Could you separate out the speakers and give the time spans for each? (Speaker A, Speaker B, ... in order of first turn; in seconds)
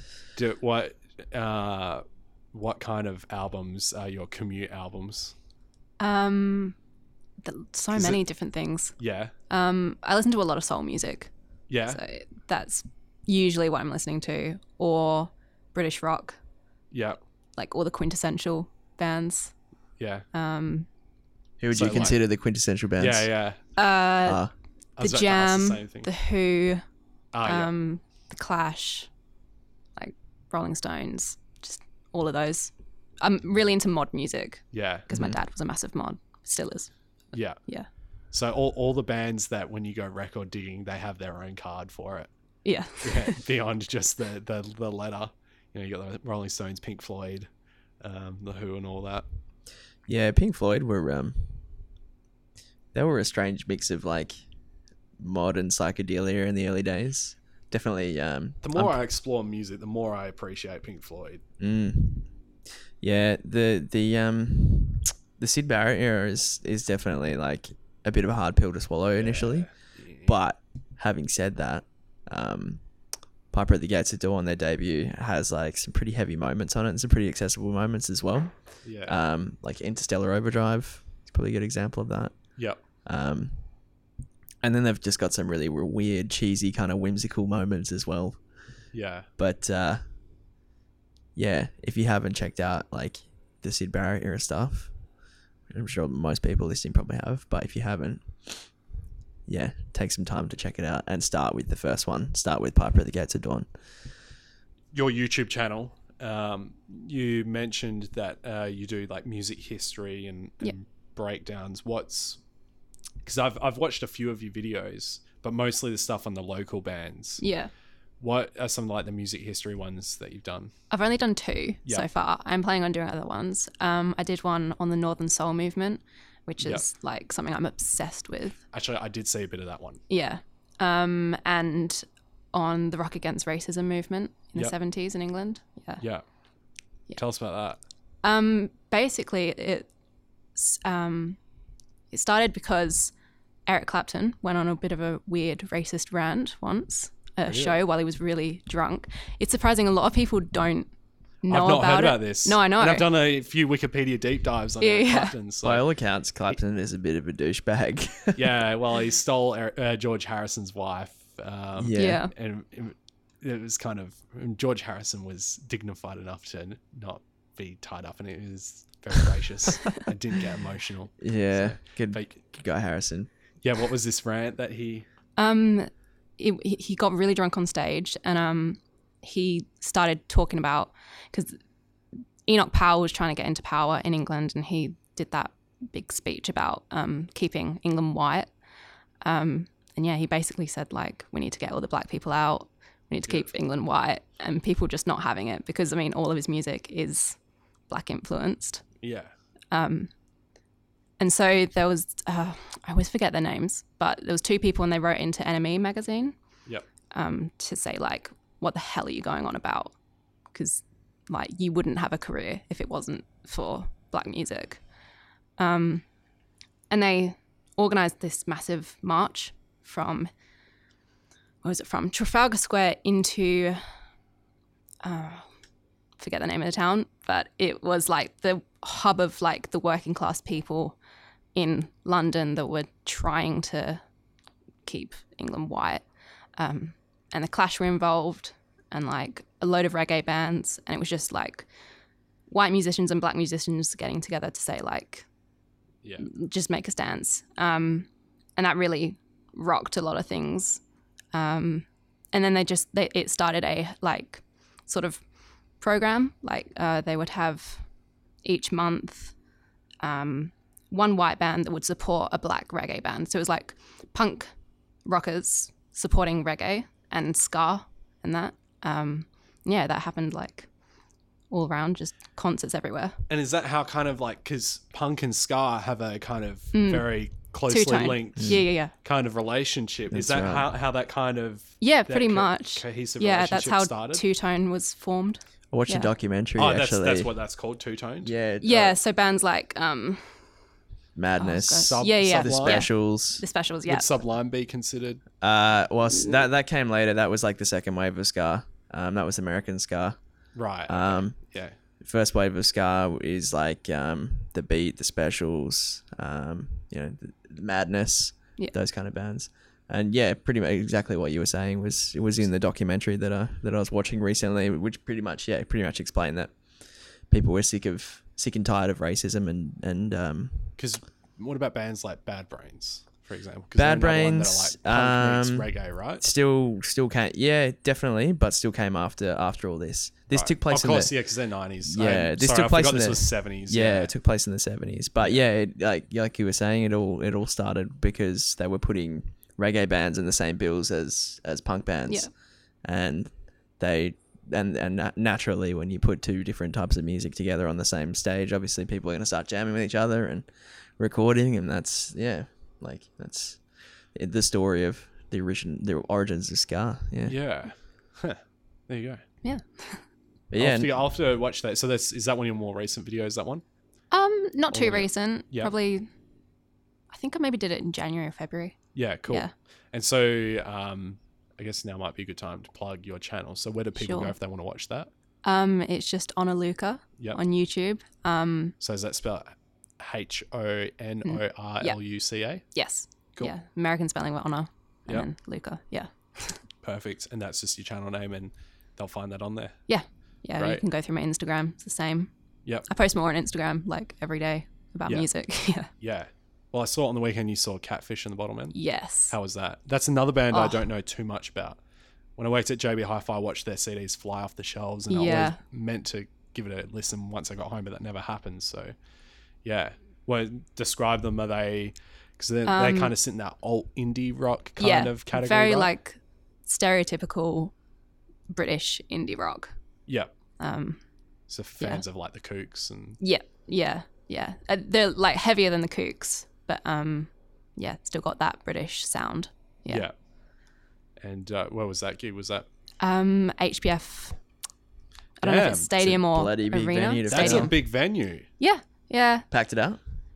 Speaker A: 0.4-5.3, 7.9-8.2, 9.0-9.3, 11.7-12.0, 16.9-17.2, 20.0-20.3, 21.7-22.2, 23.0-23.6, 25.0-26.1, 27.3-27.7, 34.7-35.1, 37.3-37.6, 38.3-42.3, 43.0-47.5, 48.0-49.2, 58.6-61.4, 69.2-70.3, 78.8-79.2, 88.9-89.3, 104.9-112.4, 113.2-117.4, 118.2-120.7, 128.7-130.0, 136.0-136.2, 137.2-137.8, 147.5-147.8, 151.5-155.8, 158.4-172.4, 173.6-175.1, 199.0-199.3, 273.3-284.2, 286.6-288.3, 291.8-292.9, 293.9-295.2, 300.6-301.8, 320.8-326.2, 330.3-334.1, 357.2-359.2, 360.6-363.6, 364.7-365.7, 368.9-375.1, 378.8-382.6, 386.8-389.8, 390.6-390.8, 396.0-398.8, 399.3-401.8, 402.4-408.9, 409.6-415.9, 420.1-420.3, 421.5-423.2, 429.9-430.1, 431.2-432.7, 435.4-435.9, 437.3-438.5
Speaker B: 6.0-6.8, 7.4-8.9, 9.5-11.3, 11.9-16.4, 17.6-19.5, 20.3-20.9, 23.8-24.4, 25.0-26.8, 27.5-29.1, 30.0-36.9, 37.6-37.9, 42.6-43.4, 117.4-117.7, 120.9-128.6, 130.1-136.0, 138.2-139.9, 140.6-141.4, 142.1-143.1, 143.7-150.9, 151.4-153.1, 154.8-155.3, 161.9-162.3, 175.4-181.6, 182.5-188.5, 189.2-197.4, 197.9-198.8, 199.7-200.1, 201.2-206.3, 207.1-209.9, 210.5-214.8, 215.6-216.0, 216.9-220.3, 221.6-223.8, 225.0-225.4, 226.2-231.0, 231.6-234.0, 234.9-236.0, 236.6-241.7, 242.5-245.2, 246.2-250.8, 251.3-255.2, 255.8-257.8, 258.4-259.4, 260.0-264.5, 265.1-270.7, 271.5-273.2, 276.7-278.9, 281.8-286.1, 288.6-290.4, 291.4-294.2, 359.4-360.0, 364.1-366.1, 367.1-369.5, 374.0-374.3, 375.4-378.7, 381.2-382.0, 382.7-386.6, 389.9-392.3, 392.9-395.9, 398.7-399.4, 400.5-400.8, 405.1-405.6, 412.7-413.1, 414.8-417.7, 418.5-419.7, 420.6-421.0, 423.2-430.1, 433.0-434.4, 435.4-437.8, 438.6-439.5
Speaker C: 21.6-23.3, 24.2-24.5, 35.1-35.4, 50.1-51.7, 52.9-54.4, 55.2-59.0, 61.6-62.3, 63.0-69.7, 70.2-72.8, 73.5-82.3, 83.0-83.6, 84.6-88.4, 89.4-90.0, 91.3-94.9, 95.7-98.7, 99.5-103.7, 155.6-158.5, 161.8-162.2, 171.2-173.3, 278.4-278.6, 280.1-280.7, 285.7-287.3, 288.2-289.0, 291.2-293.4, 295.4-300.2, 300.9-301.4, 302.0-316.5, 317.3-320.7, 323.8-331.1, 331.8-342.3, 342.9-350.5, 351.0-353.6, 354.1-357.4, 360.5-360.9, 436.0-437.7, 439.5-440.0